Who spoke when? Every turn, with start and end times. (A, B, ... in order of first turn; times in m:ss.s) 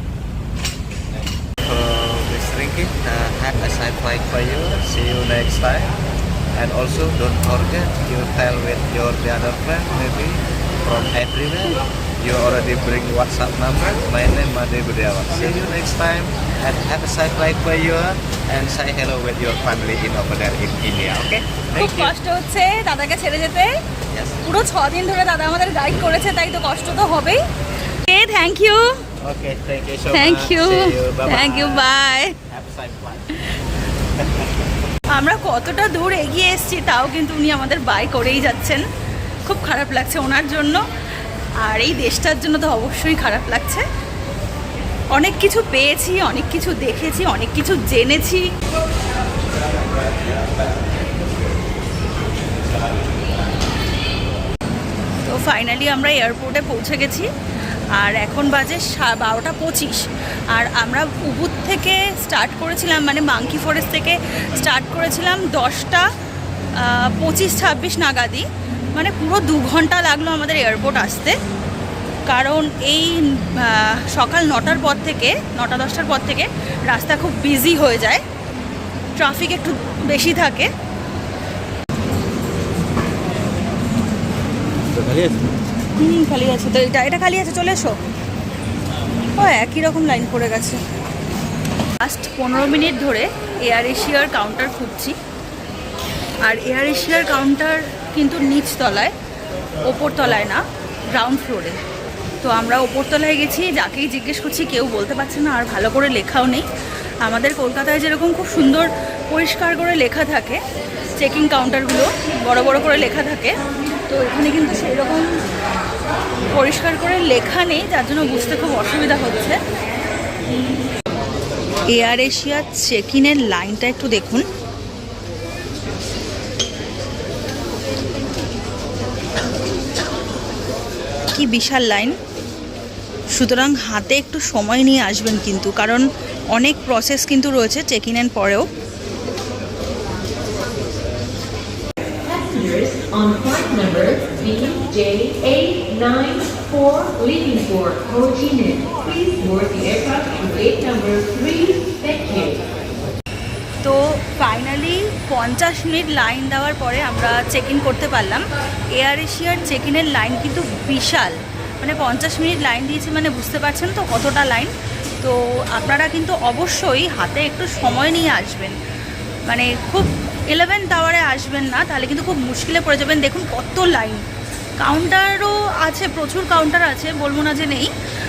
0:00.6-0:06.0 A
0:06.5-0:22.2 A
0:21.8-0:23.8 B
0:24.1-0:24.4 A
0:24.4-0:27.4 B
0:28.0-0:29.0 B
0:29.2-0:31.9 A
0:30.1-0:32.4 B
0:32.5-0:33.4 A
0:34.2-0:34.5 A
0:35.1-0:38.8 B
0:39.4-0:40.8 B
0:41.6-0:43.8 B
0:45.1-0:48.5 B
0:55.2-0:57.3 B
0:57.9-1:06.1 B
1:06.8-1:11.4 B
1:12.3-1:18.2 B
1:19.2-1:20.7 B
1:24.9-1:25.5 A
1:26.0-1:28.0 B
1:29.3-1:30.8 B
1:32.0-1:35.2 B
1:36.4-1:39.1 B
1:39.8-1:41.8 B
1:42.4-1:46.7 B
1:47.2-1:50.6 B
1:51.1-1:55.3 B
1:56.5-1:59.6 B
2:01.9-2:04.5 B
2:11.4-2:12.2 B
2:13.3-2:18.7 B
2:22.2-2:32.6 C
2:33.8-2:48.8 B
2:49.5-2:54.2 B
2:54.8-2:57.9 B